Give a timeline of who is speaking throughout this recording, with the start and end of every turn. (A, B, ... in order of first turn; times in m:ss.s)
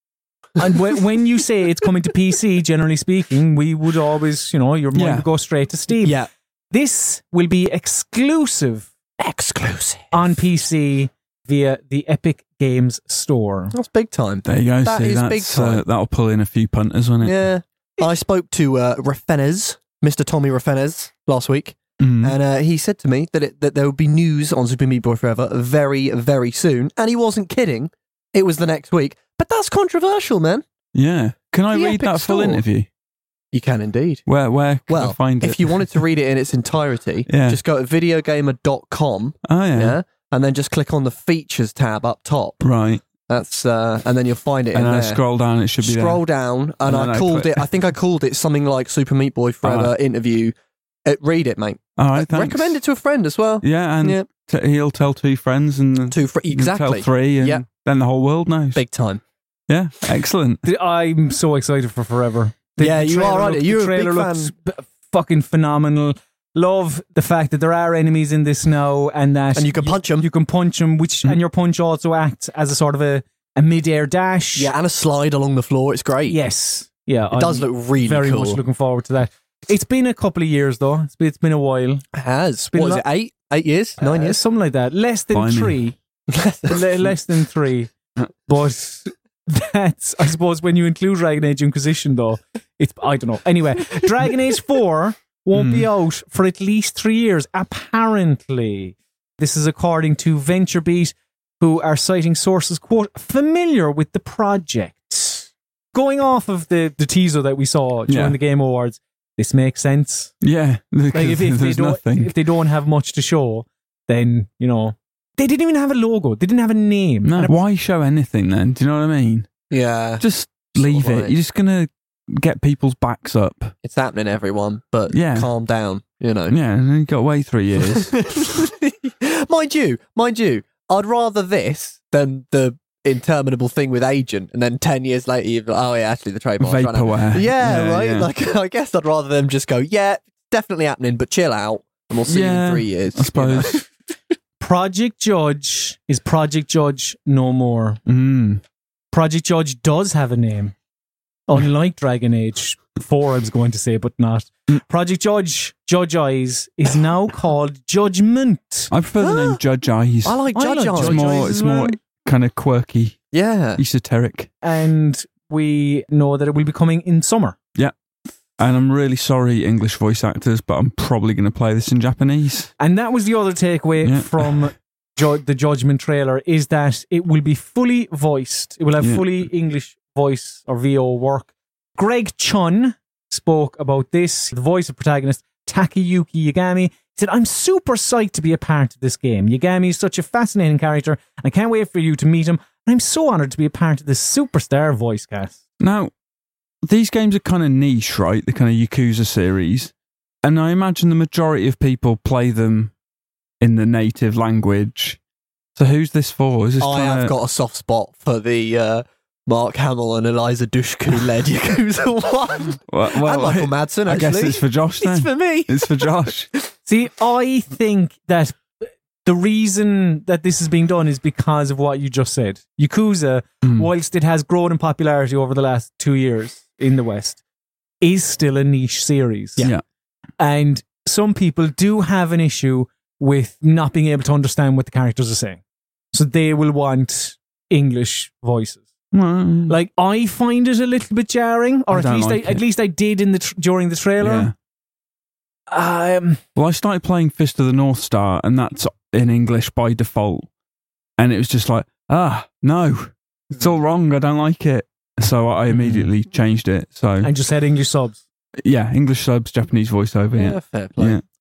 0:00.6-0:08.9 A
0:04.9-0:05.2 B
0:06.0-0:06.3 C
0:09.2-0:10.3 C
0:10.1-0:13.7 A
0:13.7-0:15.8 C
0:14.4-0:17.4 B
0:17.2-0:30.6 C
0:22.0-0:22.3 B
0:30.9-0:32.9 B
0:31.7-0:32.6 C
0:33.5-0:34.2 C
0:34.3-0:35.9 B
0:34.9-0:42.6 C
0:37.3-0:37.6 B
0:39.5-0:40.0 B
0:42.6-0:43.0 B
0:43.3-0:45.2 C
0:44.7-0:46.2 B
0:45.8-0:50.5 C
0:46.8-0:47.7 B
0:49.6-0:49.9 B
0:51.0-0:54.2 C
0:52.0-0:52.8 B
0:53.6-0:58.8 B
0:56.1-0:57.6 C
0:58.7-0:59.2 C
0:59.7-1:00.6 B
1:00.6-1:14.7 A
1:02.8-1:04.5 C
1:09.5-1:10.3 C
1:14.6-1:16.4 C
1:16.3-1:22.0 A
1:17.3-1:18.6 C
1:22.1-1:24.4 C
1:22.7-1:23.0 A
1:24.0-1:26.0 A
1:25.3-1:25.8 B
1:26.3-1:26.9 C
1:26.7-1:27.9 A
1:28.4-1:50.4 A
1:35.5-1:35.8 B
1:48.1-1:48.4 B
1:50.4-1:52.3 B
1:51.1-1:57.6 A
1:57.2-1:59.5 B
1:59.7-2:01.3 C
2:00.2-2:03.7 B
2:03.8-2:06.6 C
2:05.1-2:05.5 B
2:06.5-2:08.2 B
2:07.8-2:23.9 C
2:16.6-2:18.3 B
2:22.3-2:23.8 B
2:24.6-2:28.0 A
2:28.0-2:28.6 B
2:29.1-2:30.7 A
2:31.5-2:38.9 A
2:38.9-2:43.2 B
2:39.2-2:39.6 C
2:40.2-2:41.6 C
2:40.5-2:42.0 A
2:43.3-2:43.8 C
2:43.8-2:44.5 B
2:44.6-2:47.6 A
2:48.6-2:52.7 B
2:52.8-3:15.6 A
2:54.0-2:54.6 B
2:59.0-2:59.3 B
3:15.8-3:16.1 B
3:16.8-3:19.9 B
3:20.4-3:22.9 B
3:23.6-3:25.2 B
3:25.8-3:27.3 B
3:26.8-3:36.3 C
3:32.9-3:36.5 B
3:36.8-3:47.4 A
3:43.6-3:43.9 B
3:48.0-3:49.7 A
3:50.4-3:55.6 A
3:56.1-3:58.8 A
3:59.1-3:59.7 B
3:59.7-4:04.5 A
4:01.9-4:02.6 B
4:04.2-4:04.5 B
4:05.7-4:06.4 A
4:06.6-4:10.5 B
4:11.2-4:17.3 B
4:17.2-4:18.2 A
4:18.6-4:21.2 B
4:20.3-4:21.2 C